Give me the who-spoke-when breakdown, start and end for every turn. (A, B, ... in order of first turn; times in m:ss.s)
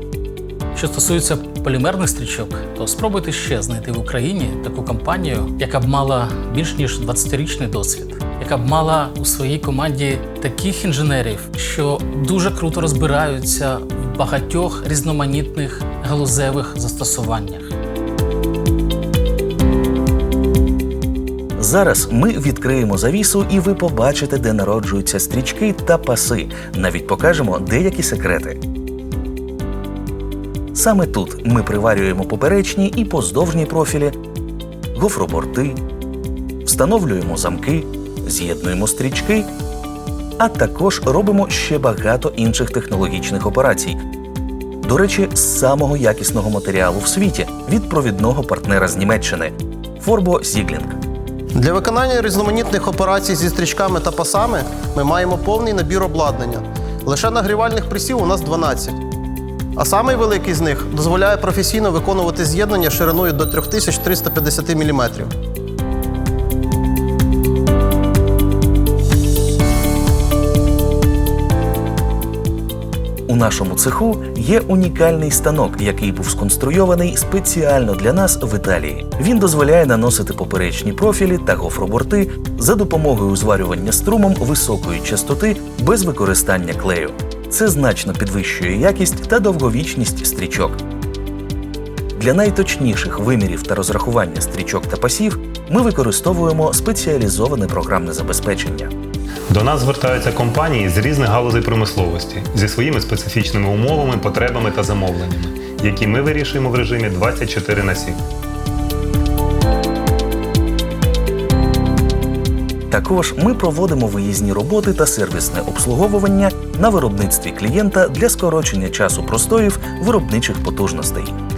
0:00.7-0:17.7 A
0:21.6-0:28.6 B
0:30.7-0:34.2 B
0:34.9-0:35.8 B
0:36.6-0:39.5 B
0:40.4-0:44.0 B
0:44.8-0:51.0 B
0:51.5-0:59.0 C
0:59.8-1:05.3 C
1:13.3-1:30.8 B
1:32.1-1:38.9 B
1:39.5-1:48.2 D
1:52.9-2:01.4 B